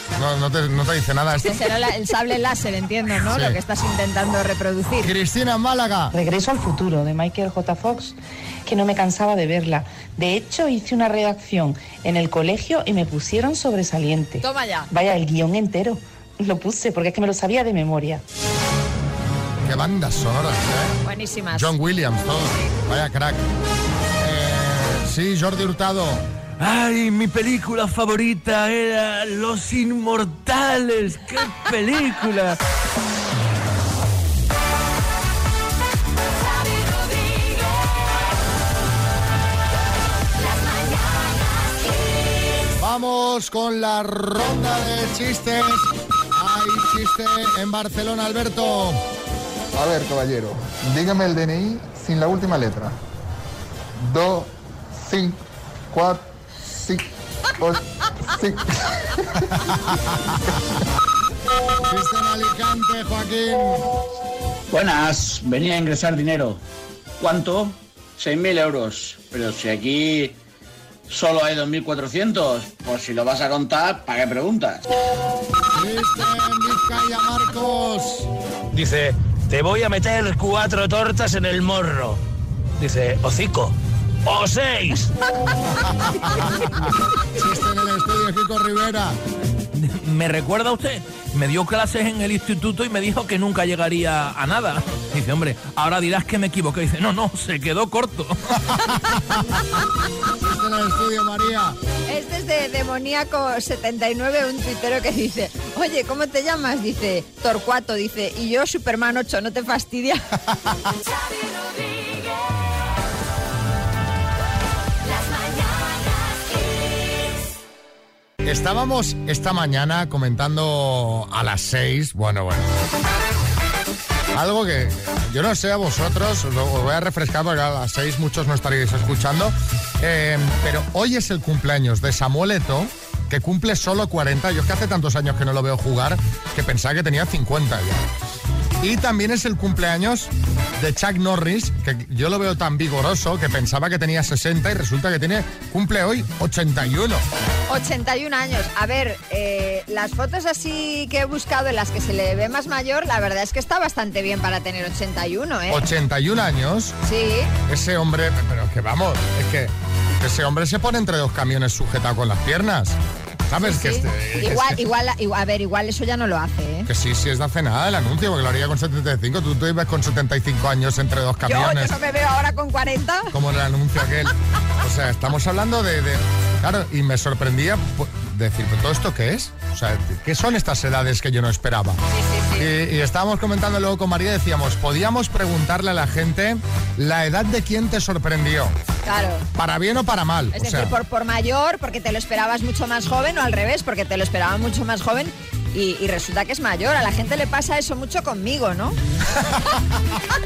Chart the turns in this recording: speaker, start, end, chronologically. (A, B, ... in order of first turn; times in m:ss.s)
0:00.2-0:01.6 A
0:01.4-0:05.1 B
0:03.2-0:03.6 A
0:05.0-0:06.2 A
0:06.1-0:18.2 C
0:14.4-0:14.9 B
0:19.6-0:21.0 A
0:21.0-0:21.8 B
0:21.5-0:23.4 A
0:24.2-0:26.2 A
0:26.6-0:32.6 D
0:42.8-0:49.0 A
0:49.8-0:53.0 E
0:54.0-0:55.4 E
0:55.9-0:57.0 E
0:57.6-0:58.6 E
0:59.5-1:00.6 A
1:01.9-1:03.9 A
1:04.7-1:06.6 F
1:07.2-1:10.4 F
1:11.1-1:14.8 F
1:15.7-1:18.3 A
1:18.8-1:22.2 G
1:22.8-1:23.7 G
1:24.3-1:25.0 G
1:25.9-1:26.7 A
1:27.3-1:29.2 A
1:29.7-1:38.4 D
1:38.7-1:39.6 A
1:40.4-1:41.8 A
1:42.1-1:50.2 B
1:58.4-2:02.7 A
2:04.3-2:18.0 A
2:18.8-2:27.2 A
2:27.7-2:35.8 B
2:35.7-2:37.0 A
2:37.0-2:37.5 B
2:37.7-2:43.0 A
2:43.5-2:44.8 A
2:43.6-2:46.9 B
2:46.9-2:51.9 A
2:51.5-2:53.3 B
2:53.3-3:02.0 A
3:02.1-3:02.7 B
3:02.6-3:08.8 A
3:09.0-3:09.5 B
3:09.6-3:10.9 A
3:10.5-3:19.0 B